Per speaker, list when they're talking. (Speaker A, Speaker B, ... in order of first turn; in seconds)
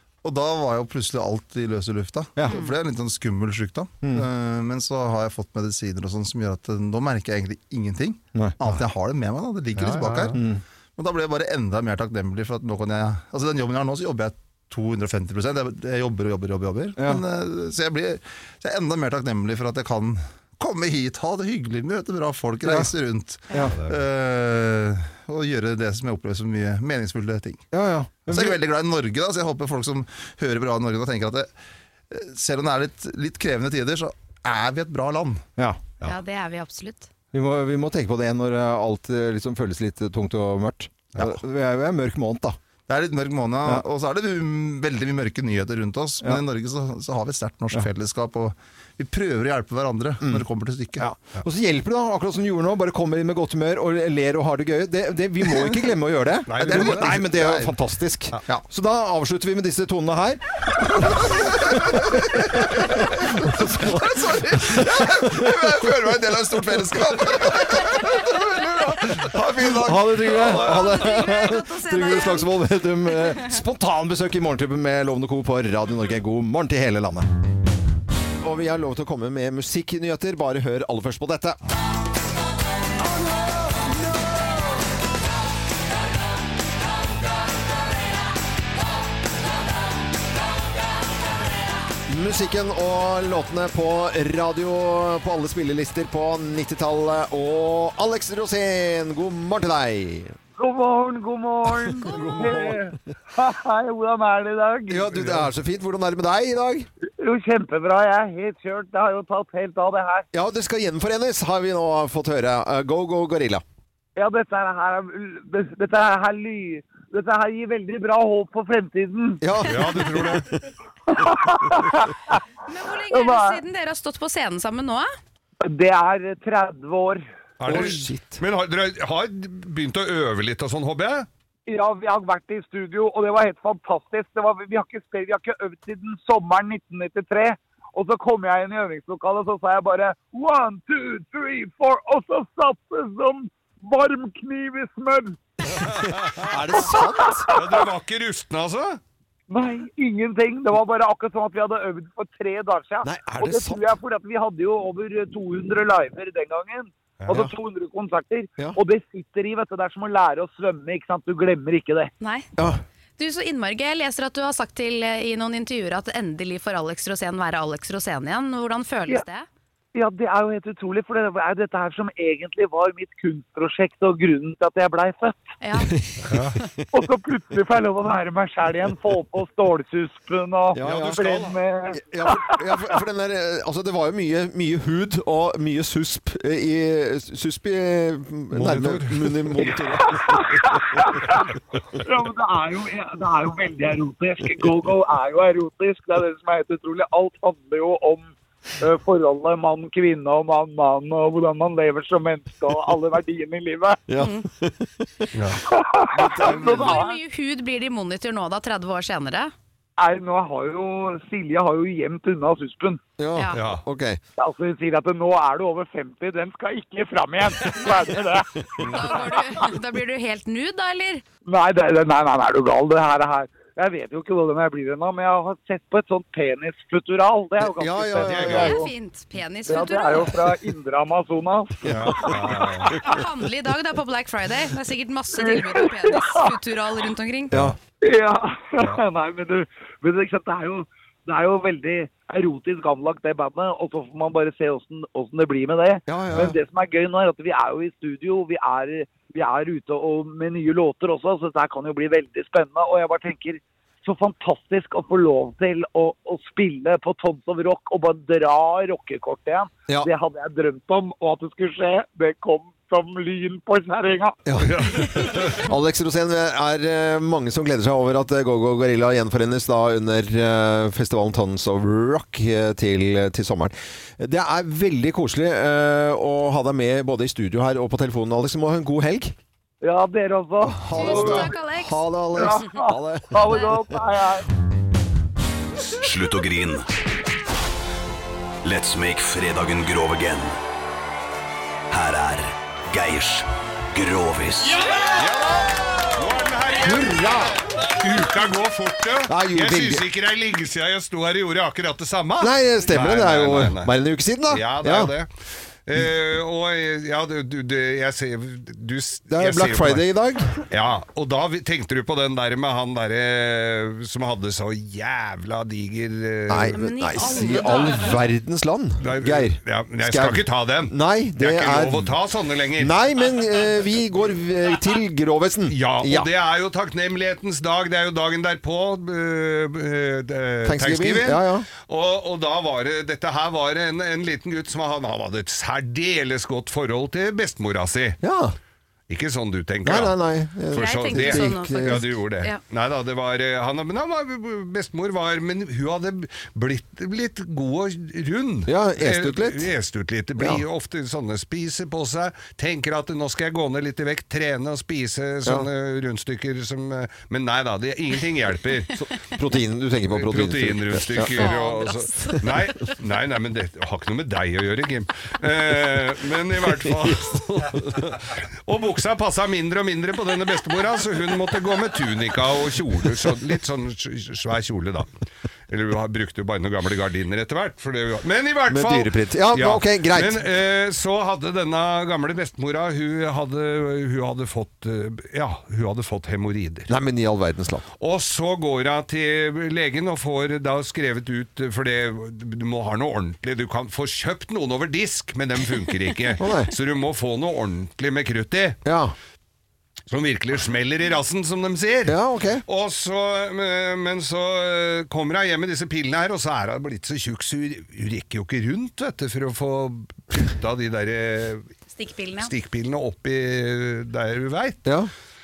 Speaker A: 0.2-10.4, 11.0-27.6, 28.3-31.5, 32.1-35.5, 42.9-51.1, 56.6-57.8, 60.9-70.9
Speaker B: 2.4-2.6, 4.0-4.2, 10.3-10.6, 17.0-17.2, 22.6-22.9, 23.5-23.8, 27.7-28.6, 37.3-42.5, 50.2-60.4, 61.5-65.9, 66.9-68.1, 69.6-77.3, 78.4-81.6, 92.1-100.3, 102.0-102.9, 104.9-106.9, 110.3-113.6, 119.4-120.7, 127.7-128.4, 145.8-147.5, 153.0-153.9, 162.6-162.8, 175.9-176.4, 180.7-181.1, 181.9-191.2, 204.1-205.3, 206.2-207.0, 213.2-214.2, 227.6-228.8, 231.8-232.3, 237.5-237.8, 246.1-246.6, 264.4-279.3, 280.7-283.8, 296.8-297.5, 299.3-300.0, 302.4-305.1, 309.3-310.6, 316.5-322.1, 322.8-326.3, 330.6-331.7, 338.2-338.5, 339.8-342.0, 348.6-349.7, 350.4-350.6, 359.0-361.4, 378.7-380.4, 386.9-387.9, 396.4-396.7, 398.8-399.1, 402.1-402.6, 414.8-415.1
Speaker C: 9.7-10.3, 23.7-24.0, 56.5-57.2, 119.7-120.5, 127.6-131.3, 145.8-146.8, 147.5-149.0, 176.3-176.6, 180.8-181.6, 188.5-189.8, 205.3-205.6, 213.5-213.8, 228.2-228.8, 231.8-233.0, 264.6-265.7, 294.9-303.9, 304.5-305.3, 305.9-310.1, 310.6-316.7, 319.0-322.9, 325.7-338.2, 339.1-340.1, 340.7-358.9, 360.1-375.1, 375.7-386.9, 388.0-398.8, 400.1-411.7, 412.4-414.8
Speaker D: 36.0-37.1, 70.5-72.5, 73.1-73.5, 102.1-102.5, 122.7-125.1, 162.2-162.5, 163.2-169.4, 175.6-175.9, 204.2-204.4, 206.4-209.5, 213.3-213.6, 218.8-221.2, 228.4-230.6, 233.0-237.5, 280.9-282.6, 316.7-318.1, 340.8-342.6, 361.3-362.9, 411.9-412.5
Speaker E: 100.5-105.3, 107.2-110.2, 114.2-119.4, 121.1-122.4, 123.1-123.6, 125.6-127.2, 131.7-145.9, 146.7-147.8, 149.5-162.1, 169.9-175.6, 176.9-183.0, 190.0-204.0, 205.7-207.2, 210.0-213.0, 214.4-219.7, 221.4-228.5, 229.7-233.2, 235.4-236.5, 238.0-264.4, 279.8-281.5, 282.4-284.5
Speaker F: 285.9-286.9, 288.6-290.6, 291.9-294.9